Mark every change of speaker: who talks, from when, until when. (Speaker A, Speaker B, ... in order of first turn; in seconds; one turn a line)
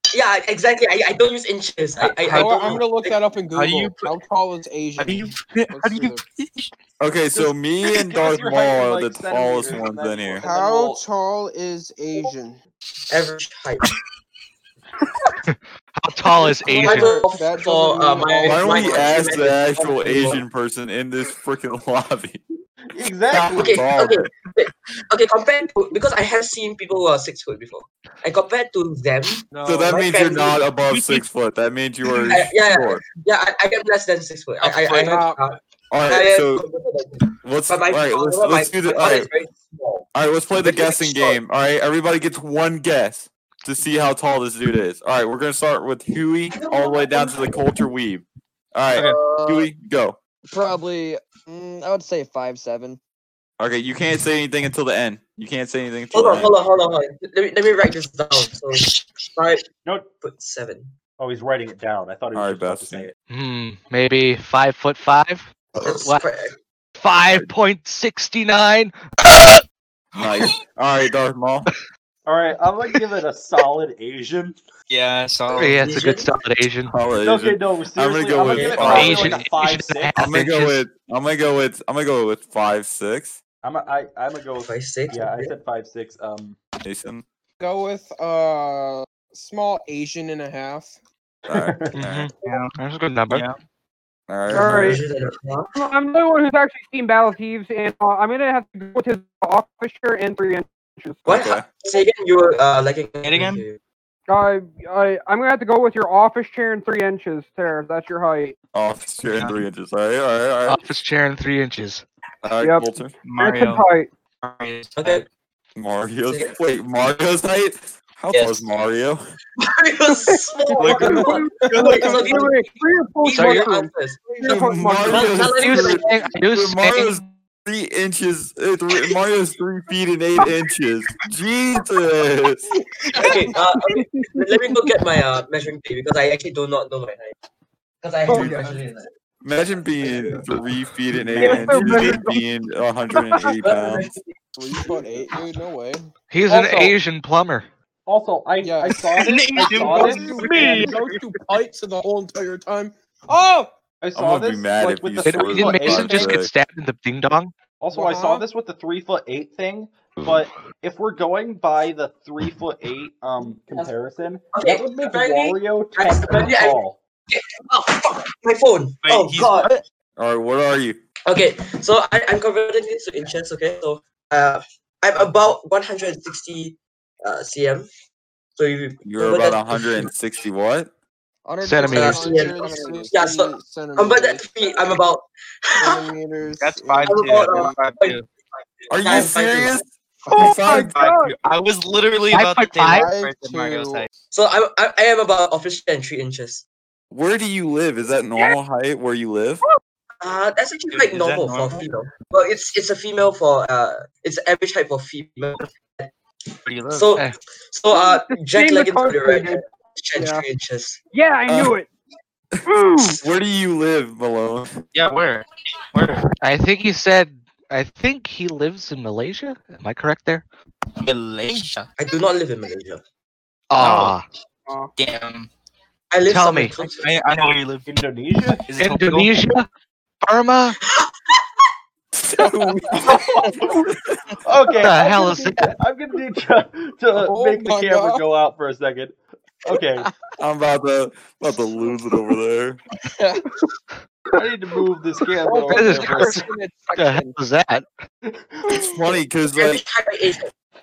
Speaker A: 0.1-3.2
Speaker B: 2.2-6.2
Speaker C: 2.2-2.8
Speaker C: 3.5-4.1
Speaker C: 5.0-6.7
Speaker D: 7.0-10.4
Speaker E: 7.3-11.0
Speaker B: 10.4-12.6
Speaker A: 13.1-13.8
Speaker F: 15.5-17.2
Speaker B: 16.4-19.3
Speaker A: 16.6-20.4
Speaker D: 18.4-22.4
Speaker E: 22.9-23.8
Speaker A: 23.3-30.6
Speaker D: 23.5-24.3
Speaker B: 29.5-30.0
Speaker D: 29.6-33.0
Speaker C: 30.8-31.2
Speaker A: 32.2-40.1
Speaker B: 34.6-35.4
Speaker D: 35.9-36.6
Speaker D: 37.4-39.3
Speaker D: 40.1-50.2
Speaker A: 40.6-41.4
Speaker A: 46.5-47.7
Speaker G: 48.9-49.7
Speaker G: 50.5-53.0
Speaker D: 53.6-56.5
Speaker A: 56.1-59.6
Speaker A: 60.2-60.9
Speaker E: 61.2-63.1
Speaker D: 62.3-63.1
Speaker F: 63.3-66.2
Speaker A: 65.8-66.5
Speaker F: 67.0-69.6
Speaker D: 70.2-71.7
Speaker E: 72.2-74.6
Speaker C: 74.9-76.0
Speaker A: 75.5-76.3
Speaker F: 75.5-76.9
Speaker D: 76.9-79.3
Speaker E: 77.2-80.2
Speaker A: 78.5-79.3
Speaker F: 78.8-80.8
Speaker D: 80.2-83.4
Speaker E: 83.6-86.6
Speaker A: 84.6-85.5
Speaker D: 86.8-87.2
Speaker B: 87.6-90.9
Speaker D: 91.5-92.3
Speaker E: 91.5-92.0
Speaker F: 91.9-93.4
Speaker C: 92.4-92.8
Speaker C: 93.3-93.6
Speaker D: 94.3-95.0
Speaker H: 94.5-95.0
Speaker A: 94.5-95.7
Speaker H: 95.7-101.4
Speaker A: 101.2-103.8
Speaker D: 101.3-101.7
Speaker C: 103.2-103.6
Speaker H: 104.3-108.5
Speaker D: 108.7-110.8
Speaker C: 109.3-109.6
Speaker F: 110.7-112.0
Speaker D: 112.4-113.1
Speaker H: 112.6-114.1
Speaker C: 113.2-113.8
Speaker C: 114.4-115.2
Speaker A: 115.0-115.2
Speaker D: 115.8-119.2
Speaker A: 116.3-116.5
Speaker A: 118.3-118.7
Speaker A: 119.6-124.5
Speaker H: 120.1-125.5
Speaker C: 120.8-122.4
Speaker F: 123.3-123.7
Speaker D: 124.4-132.7
Speaker A: 125.1-126.1
Speaker F: 125.4-127.3
Speaker A: 133.1-137.3
Speaker H: 133.8-134.8
Speaker A: 138.0-139.1
Speaker H: 138.2-138.8
Speaker D: 138.3-138.6
Speaker D: 139.4-144.1
Speaker H: 141.3-142.4
Speaker H: 143.2-143.6
Speaker A: 143.6-144.3
Speaker B: 144.6-146.1
Speaker F: 146.3-147.7
Speaker E: 146.5-147.0
Speaker E: 148.1-150.9
Speaker B: 148.6-153.7
Speaker C: 149.0-150.9
Speaker H: 150.3-151.2
Speaker E: 154.0-156.4
Speaker D: 154.1-156.5
Speaker F: 155.2-157.5
Speaker E: 157.8-167.0
Speaker B: 157.9-158.4
Speaker A: 164.5-166.8
Speaker A: 167.3-169.7
Speaker C: 169.0-169.8
Speaker D: 170.2-171.0
Speaker A: 171.2-177.9
Speaker A: 178.6-180.1
Speaker D: 179.0-180.9
Speaker G: 181.4-183.1
Speaker F: 181.6-182.2
Speaker B: 181.8-184.5
Speaker A: 181.9-186.0
Speaker B: 185.8-187.7
Speaker C: 186.6-188.3
Speaker A: 187.1-189.8
Speaker D: 188.9-190.9
Speaker C: 190.3-194.1
Speaker H: 190.3-191.3
Speaker F: 192.3-193.1
Speaker B: 192.8-194.1
Speaker A: 194.3-196.6
Speaker D: 197.1-199.6
Speaker A: 200.2-206.1
Speaker C: 200.9-201.9
Speaker C: 206.7-207.1
Speaker A: 206.9-211.0
Speaker H: 207.9-209.6
Speaker H: 210.2-210.4
Speaker H: 211.1-211.9
Speaker D: 211.5-211.8
Speaker H: 212.7-213.2
Speaker D: 213.0-214.8
Speaker C: 214.9-216.3
Speaker F: 216.4-220.4
Speaker C: 221.0-221.9
Speaker A: 222.0-223.0
Speaker F: 223.7-224.2
Speaker C: 223.8-224.2
Speaker C: 224.9-225.5
Speaker A: 226.1-227.1
Speaker F: 226.2-226.8
Speaker C: 226.9-227.9
Speaker E: 227.8-228.7
Speaker C: 228.6-229.5
Speaker F: 228.8-229.7
Speaker F: 230.2-230.8
Speaker A: 230.9-231.4
Speaker D: 232.2-233.2
Speaker E: 233.0-233.8
Speaker E: 234.4-240.1
Speaker F: 234.8-235.8
Speaker B: 237.1-238.2
Speaker D: 240.4-242.8
Speaker E: 244.3-246.4
Speaker G: 245.4-247.4
Speaker F: 245.7-247.9
Speaker E: 248.3-248.6
Speaker D: 248.8-249.8
Speaker A: 249.6-250.5